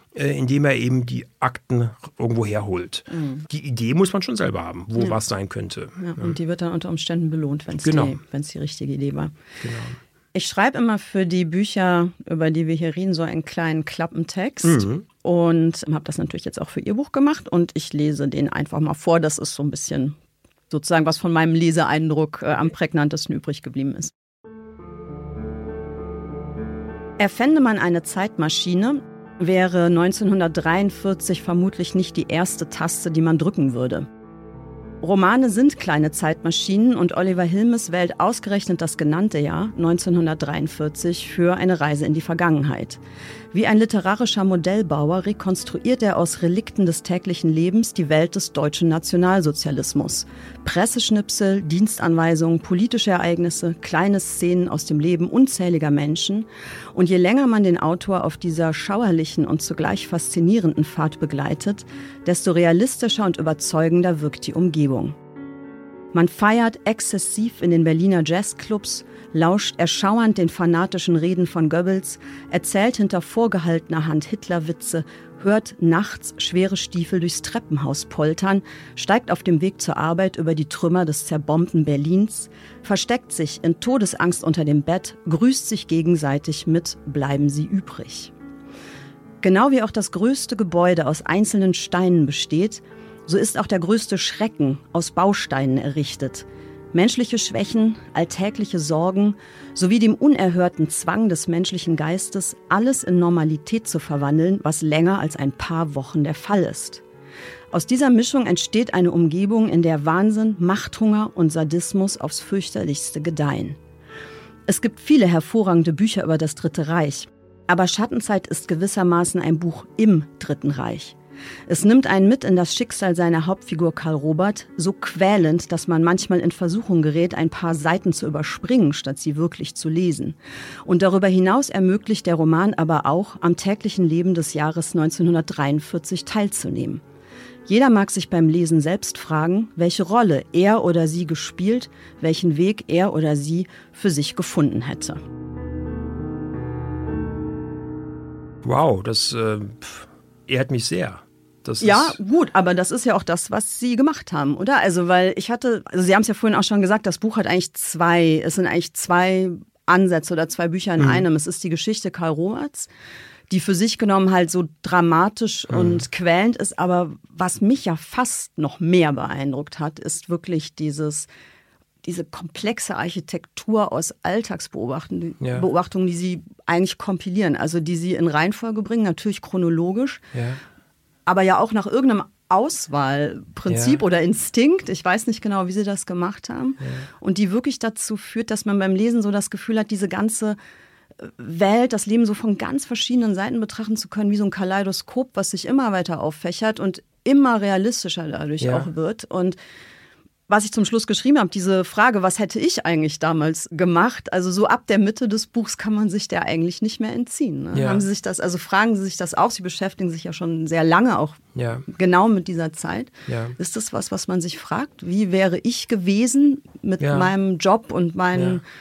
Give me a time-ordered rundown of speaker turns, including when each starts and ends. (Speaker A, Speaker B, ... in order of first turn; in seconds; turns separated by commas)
Speaker A: 0.1-6.4, Speaker B: 3.1-3.4, Speaker B: 6.0-9.3, Speaker A: 7.8-8.2, Speaker A: 9.6-10.0, Speaker B: 10.3-20.2, Speaker A: 14.6-15.1, Speaker B: 20.7-24.1, Speaker B: 27.2-34.1, Speaker B: 35.0-43.0, Speaker B: 43.5-65.2, Speaker B: 66.1-88.3, Speaker B: 89.4-107.0, Speaker B: 107.7-113.8, Speaker B: 114.7-121.2, Speaker B: 121.7-137.0, Speaker B: 137.7-145.2, Speaker A: 148.6-152.2, Speaker B: 151.8-162.9, Speaker A: 161.0-161.3, Speaker B: 163.5-171.3, Speaker A: 165.7-166.0, Speaker B: 172.0-180.2, Speaker A: 175.4-175.7, Speaker A: 180.3-180.6, Speaker B: 181.3-190.6, Speaker A: 183.7-184.0, Speaker B: 191.2-199.6, Speaker A: 198.6-198.9, Speaker B: 200.5-218.6, Speaker A: 207.7-208.1, Speaker A: 211.6-211.9, Speaker A: 213.3-213.6, Speaker A: 217.0-217.3, Speaker A: 218.3-218.6